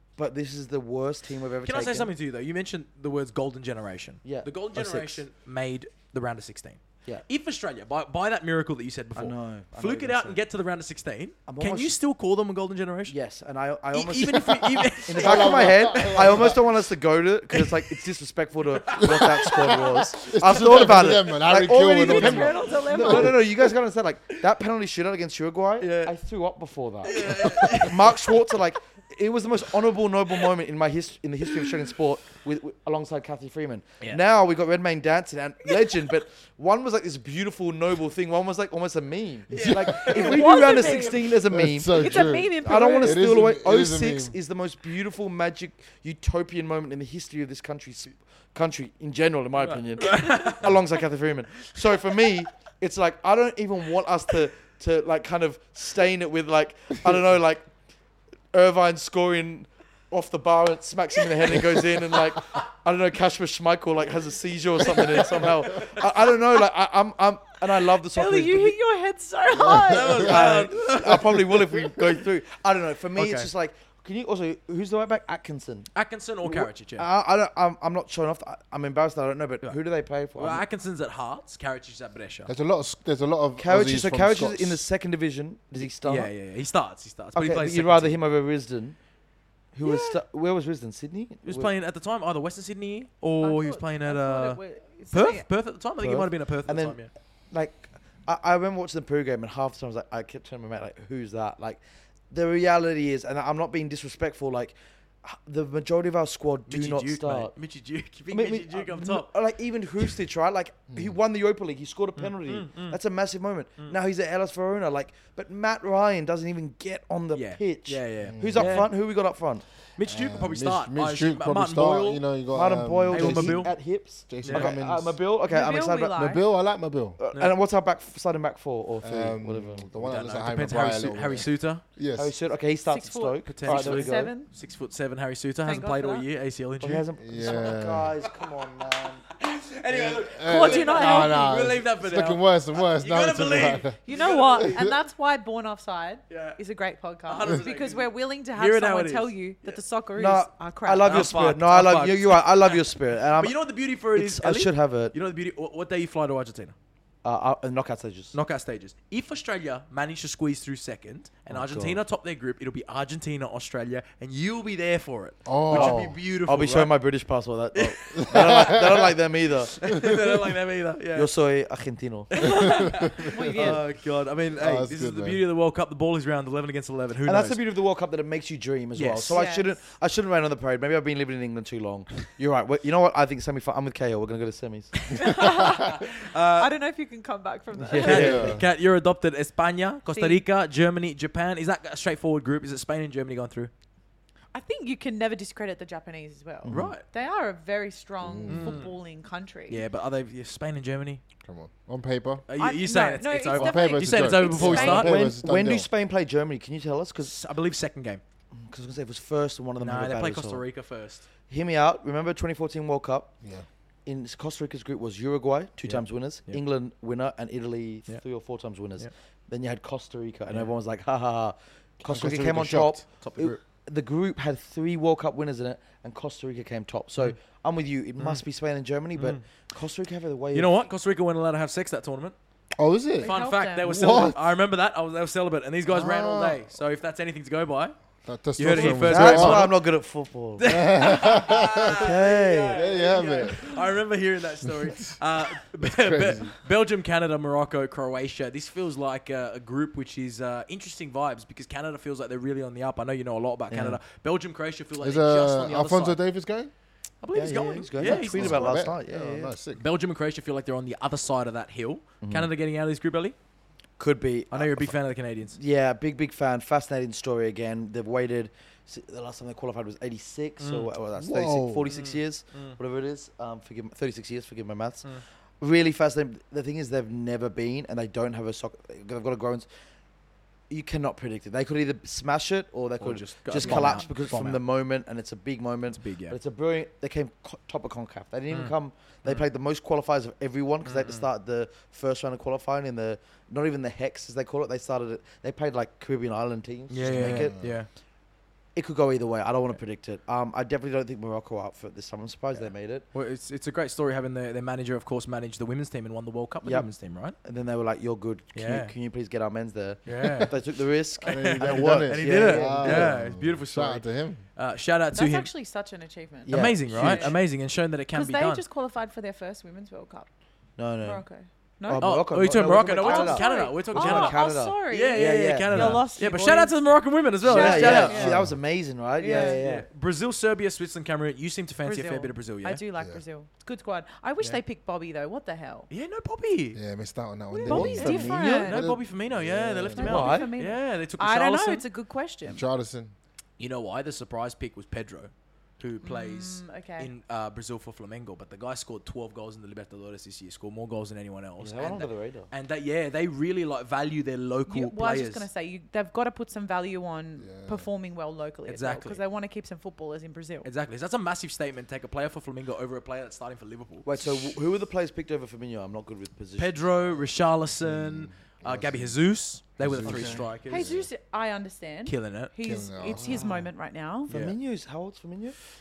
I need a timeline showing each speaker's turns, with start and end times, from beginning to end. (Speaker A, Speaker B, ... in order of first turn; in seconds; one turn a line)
Speaker A: 0.2-2.1
Speaker B: 1.6-13.2
Speaker A: 4.2-5.2
Speaker A: 9.2-10.4
Speaker A: 11.5-11.9
Speaker A: 13.1-57.7
Speaker B: 13.9-16.6
Speaker C: 15.1-16.6
Speaker B: 17.5-18.0
Speaker B: 18.7-21.2
Speaker C: 20.1-23.4
Speaker D: 22.0-23.3
Speaker B: 25.8-26.1
Speaker B: 27.0-28.5
Speaker B: 39.5-41.1
Speaker C: 39.5-39.8
Speaker D: 40.0-41.3
Speaker C: 41.5-44.3
Speaker D: 41.9-43.3
Speaker B: 49.6-50.8
Speaker B: 51.7-52.3
Speaker A: 58.5-68.8
Speaker B: 65.0-66.0
Speaker D: 68.1-70.4
Speaker B: 69.7-72.0
Speaker A: 70.1-75.9
Speaker B: 73.2-73.5
Speaker B: 75.9-77.1
Speaker A: 76.4-80.6
Speaker B: 80.3-82.5
Speaker C: 82.5-84.8
Speaker A: 83.6-86.3
Speaker B: 85.8-88.2
Speaker A: 87.3-89.0
Speaker A: 89.7-91.7
Speaker B: 89.8-90.2
Speaker B: 91.4-97.1
Speaker D: 93.4-95.5
Speaker A: 96.0-97.0
Speaker A: 97.5-101.8
Speaker A: 102.3-107.5
Speaker B: 106.7-109.3
Speaker A: 108.3-119.6
Speaker C: 110.9-111.2
Speaker B: 112.2-113.0
Speaker B: 117.3-118.9
Speaker C: 118.2-118.8
Speaker B: 120.0-122.2
Speaker C: 120.0-123.7
Speaker A: 122.5-126.2
Speaker B: 123.1-123.7
Speaker C: 124.3-125.2
Speaker B: 124.4-124.7
Speaker D: 125.5-126.4
Speaker C: 126.1-127.2
Speaker A: 127.2-129.9
Speaker C: 129.0-132.3
Speaker B: 130.0-131.8
Speaker A: 132.2-134.3
Speaker D: 132.9-134.5
Speaker B: 133.5-137.7
Speaker D: 135.6-136.2
Speaker A: 136.8-139.2
Speaker C: 137.2-138.1
Speaker B: 139.3-144.8
Speaker C: 139.9-144.0
Speaker D: 140.4-141.5
Speaker D: 144.0-151.2
Speaker C: 144.6-144.9
Speaker B: 146.3-146.6
Speaker B: 147.3-149.8
Speaker A: 150.2-153.6
Speaker B: 151.0-156.7
Speaker A: 154.1-155.1
Speaker A: 157.2-158.3
Speaker B: 158.3-166.9
Speaker A: 161.5-162.0
Speaker C: 165.4-166.2
Speaker A: 165.7-169.8
Speaker B: 167.7-169.0
Speaker C: 168.1-169.0
Speaker B: 169.7-171.3
Speaker A: 171.1-172.9
Speaker B: 172.3-177.6
Speaker D: 173.2-173.8
Speaker C: 174.5-175.4
Speaker A: 177.2-185.0
Speaker B: 178.9-179.4
Speaker D: 179.3-179.7
Speaker B: 185.1-186.7
Speaker D: 185.1-188.6
Speaker A: 187.8-188.6
Speaker B: 187.9-193.7
Speaker C: 188.0-188.6
Speaker D: 190.1-190.4
Speaker D: 194.5-199.8
Speaker A: 196.6-196.9
Speaker B: 196.7-197.0
Speaker C: 198.2-198.8
Speaker B: 198.5-198.9
Speaker B: 199.7-201.2
Speaker C: 201.4-202.4
Speaker B: 202.5-205.2
Speaker D: 202.6-205.1
Speaker C: 203.5-205.9
Speaker A: 204.6-207.3
Speaker B: 207.2-208.2
Speaker A: 208.5-210.6
Speaker B: 209.8-211.2
Speaker A: 211.5-213.3
Speaker A: 214.1-230.8
Speaker B: 215.8-216.6
Speaker C: 222.1-223.0
Speaker B: 223.2-223.6
Speaker B: 229.2-229.4
Speaker B: 230.5-232.3
Speaker C: 232.8-234.4
Speaker D: 233.2-234.1
Speaker B: 233.2-237.9
Speaker C: 235.9-236.7
Speaker C: 238.2-239.7
Speaker B: 238.6-239.8
Speaker A: 238.7-243.0
Speaker B: 240.6-256.2
Speaker C: 240.7-242.1
Speaker C: 242.7-243.7
Speaker D: 243.2-243.8
Speaker C: 244.6-245.2
Speaker C: 245.8-246.5
Speaker A: 253.7-254.0
Speaker C: 255.0-256.7
Speaker B: 257.2-258.8
Speaker A: 257.3-259.5
Speaker C: 258.0-259.8
Speaker B: 259.8-263.3
Speaker A: 262.2-262.5
Speaker A: 264.0-264.9
Speaker B: 264.5-265.6
Speaker A: 265.5-275.1
Speaker B: 270.6-270.9
Speaker C: 271.1-271.9
Speaker B: 271.9-272.8
Speaker A: 275.6-279.7
Speaker A: 280.7-297.6
Speaker B: 283.0-284.6
Speaker B: 285.9-286.4
Speaker B: 290.8-291.2
Speaker B: 296.9-297.9
Speaker C: 297.0-297.7
Speaker A: 298.7-303.1
Speaker B: 303.1-307.4
Speaker A: 306.6-306.9
Speaker A: 307.4-313.1
Speaker B: 308.5-308.9
Speaker B: 310.1-310.6
Speaker B: 311.2-315.5
Speaker C: 311.2-314.4
Speaker D: 315.1-317.4
Speaker A: 316.5-317.4
Speaker B: 316.5-318.6
Speaker D: 318.1-320.3
Speaker A: 320.8-321.2
Speaker D: 321.0-322.1
Speaker A: 321.9-326.0
Speaker B: 322.0-328.4
Speaker D: 322.7-326.8
Speaker A: 327.4-329.9
Speaker D: 327.4-328.3
Speaker C: 328.1-328.6
Speaker D: 329.2-329.6
Speaker B: 329.3-332.8
Speaker D: 331.8-335.9
Speaker C: 332.9-333.2
Speaker B: 335.9-336.8
Speaker C: 336.7-338.4
Speaker D: 337.5-338.8
Speaker A: 337.7-340.5
Speaker B: 338.0-341.8
Speaker C: 339.3-340.2
Speaker D: 339.9-342.6
Speaker C: 342.5-343.1
Speaker B: 343.6-355.4
Speaker D: 346.0-347.1
Speaker A: 351.6-352.5
Speaker D: 354.7-360.7
Speaker C: 357.4-357.9
Speaker B: 358.7-359.2
Speaker B: 360.6-364.1
Speaker A: 364.0-366.8
Speaker B: 366.6-370.9
Speaker C: 367.8-369.1
Speaker C: 369.8-371.1
Speaker A: 370.0-370.4
Speaker D: 370.6-374.3
Speaker B: 372.1-372.5
Speaker C: 372.6-373.6
Speaker A: 373.2-373.7
Speaker A: 374.3-375.6
Speaker B: 374.3-374.6